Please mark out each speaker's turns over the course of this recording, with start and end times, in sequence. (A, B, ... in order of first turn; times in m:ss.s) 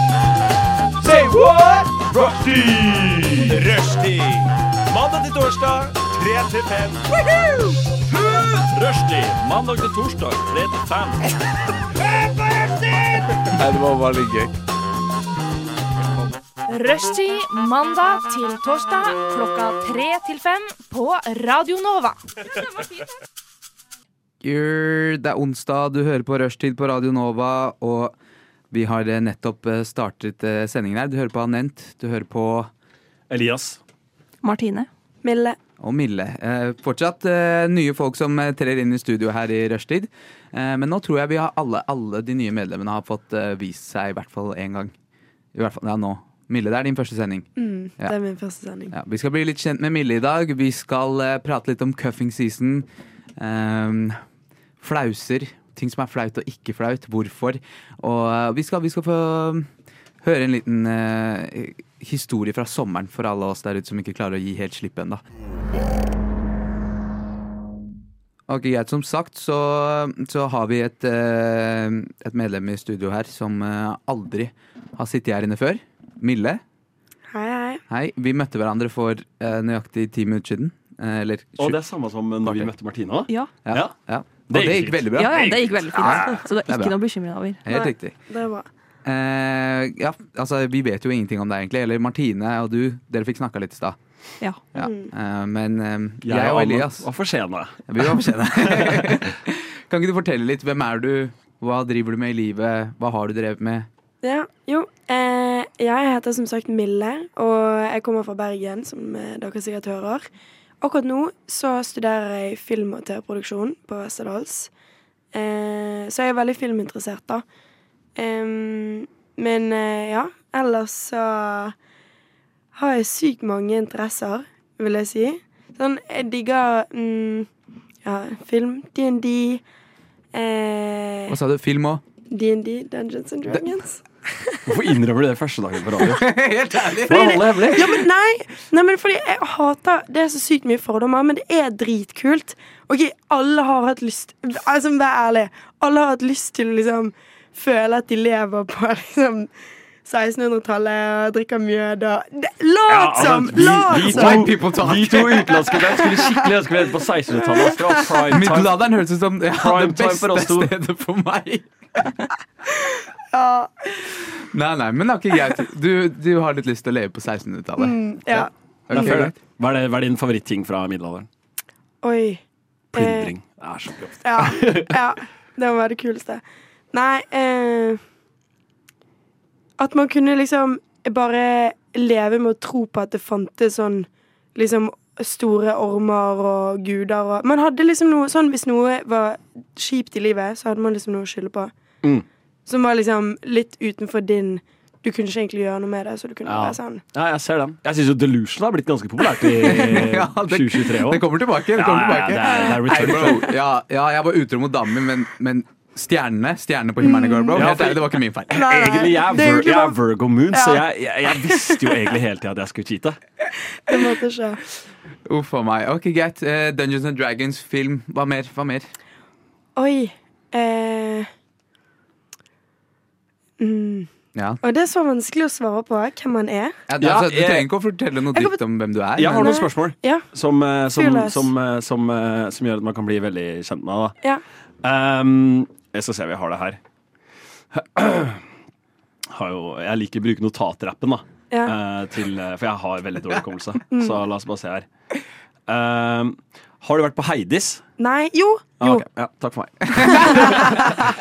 0:01.0-0:02.5 A
0:01.1-0:03.6 B
0:03.5-0:04.5 A
0:04.9-0:07.0 B
0:08.1-0:11.2 B
0:13.5-0:14.6 C
0:16.7-0:22.9 D
0:24.4-0:28.1 C
0:28.7-0:32.7 C
0:33.3-0:33.8 B
0:34.4-0:34.9 E
0:35.2-0:35.6 F
0:35.8-0:44.9 C
0:45.5-0:47.5 C
0:47.6-0:48.9 F
0:48.9-0:54.2 C
0:54.8-0:59.7 C
1:00.2-1:05.2 C
1:08.5-1:16.6 C
1:17.3-1:17.8 F
1:17.9-1:21.8 C
1:21.6-1:23.9 B
1:22.4-1:22.7 C
1:23.6-1:26.9 C
1:24.5-1:26.4 B
1:25.1-1:27.6 E
1:27.6-1:28.1 C
1:27.7-1:28.7 F
1:29.0-1:34.0 C
1:34.7-1:37.0 C
1:34.8-1:35.1 F
1:36.2-1:39.2 B
1:37.9-1:43.9 C
1:44.2-1:50.3 F
1:50.8-1:54.7 F
1:55.3-1:57.4 F
1:58.2-2:01.7 F
2:02.7-2:07.5 F
2:08.0-2:09.6 F
2:10.3-2:11.4 F
2:11.3-2:12.0 C
2:12.3-2:14.6 F
2:14.7-2:16.3 B
2:16.0-2:17.6 C
2:16.9-2:18.0 B
2:17.1-2:29.5 F
2:30.0-2:34.6 F
2:32.9-2:38.8 B
2:33.9-2:35.8 C
2:35.5-2:36.5 F
2:37.3-2:38.4 F
2:38.3-2:42.2 C
2:39.5-2:40.7 B
2:43.3-2:43.7 F
2:44.0-2:49.3 C
2:47.8-2:49.2 F
2:48.9-2:51.3 B
2:52.0-2:52.4 F
2:52.9-2:55.0 B
2:52.9-2:53.3 F
2:54.2-2:58.0 F
2:59.8-3:11.7 F
3:12.6-3:17.0 F
3:16.4-3:21.2 B
3:19.6-3:28.9 C
3:21.7-3:23.5 B
3:27.0-3:27.6 F
3:27.5-3:33.2 B
3:28.5-3:30.0 F
3:30.5-3:31.5 F
3:33.8-3:34.6 F
3:35.2-3:38.9 C
3:39.8-3:41.3 F
3:43.6-3:44.1 F
3:44.3-3:44.6 C
3:44.6-3:46.7 F
3:46.9-3:49.6 C
3:47.0-3:47.7 B
3:48.3-3:48.6 F
3:49.2-3:54.2 B
3:49.3-3:50.2 F
3:50.9-3:51.5 F
3:54.8-3:56.8 B
3:57.7-3:58.4 B
3:59.3-4:04.8 B
4:05.7-4:07.8 B
4:08.0-4:09.0 F
4:08.8-4:11.0 B
4:09.9-4:10.4 C
4:10.2-4:10.8 F